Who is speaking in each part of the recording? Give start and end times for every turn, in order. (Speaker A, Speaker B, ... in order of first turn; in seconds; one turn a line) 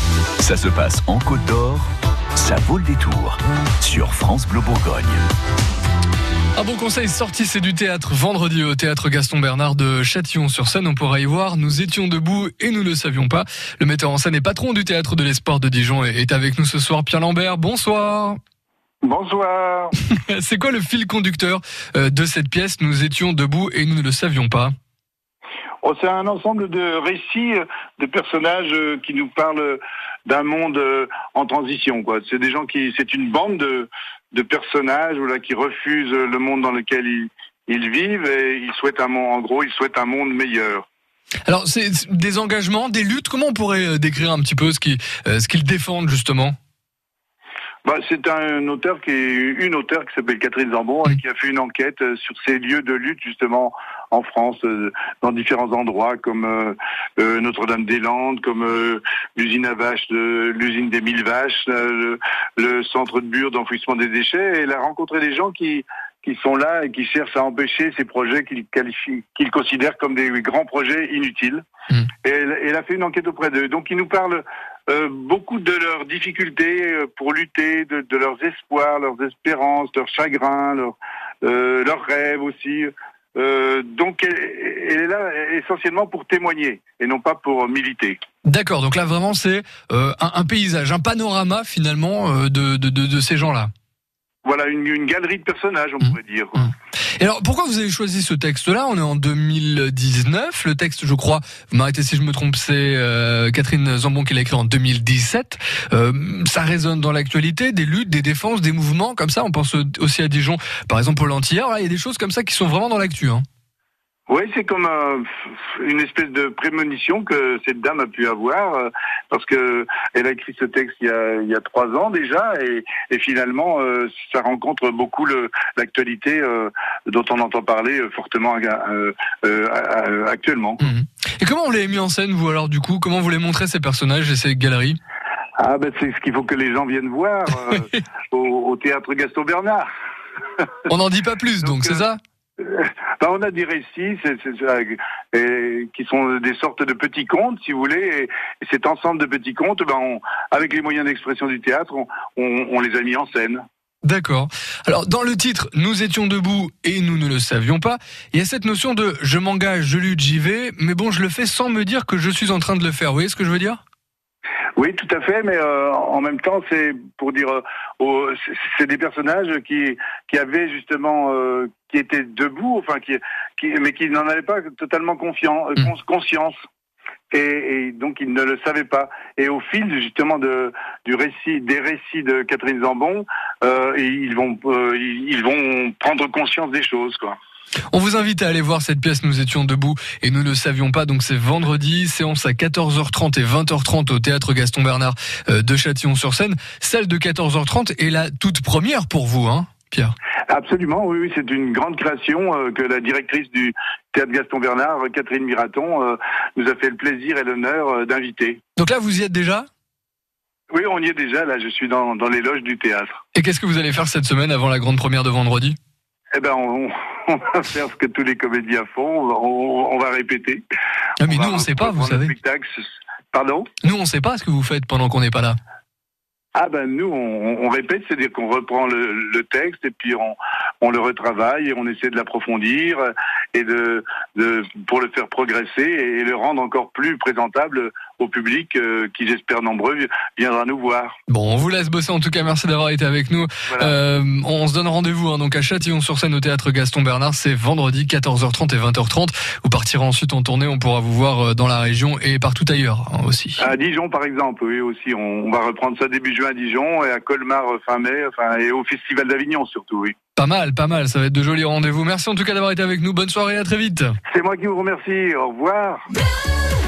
Speaker A: 0.4-5.2
Speaker B: 6.5-18.4
Speaker C: 19.0-19.9
Speaker B: 20.1-24.7
Speaker C: 25.8-40.8
Speaker B: 41.5-46.5
Speaker C: 47.8-71.6
Speaker C: 72.2-88.2
Speaker B: 88.4-93.7
Speaker C: 94.4-96.7
Speaker B: 97.2-113.4
Speaker C: 114.3-130.8
Speaker B: 130.8-135.0
Speaker C: 135.6-139.9
Speaker B: 140.9-142.2
Speaker C: 141.6-142.0
Speaker C: 142.6-153.6
Speaker B: 154.0-163.8
Speaker C: 164.8-176.5
Speaker C: 177.3-187.3
Speaker B: 187.9-200.1
Speaker C: 200.5-208.6
Speaker B: 208.8-209.7
Speaker C: 210.7-213.2
Speaker B: 213.3-215.8
Speaker C: 216.3-220.6
Speaker B: 221.2-222.3
Speaker C: 221.2-222.7
Speaker C: 223.3-223.7
Speaker B: 223.8-225.6
Speaker C: 226.6-241.1
Speaker B: 241.3-253.6
Speaker C: 243.7-244.0
Speaker C: 253.6-260.1
Speaker B: 260.4-264.1
Speaker C: 264.3-266.1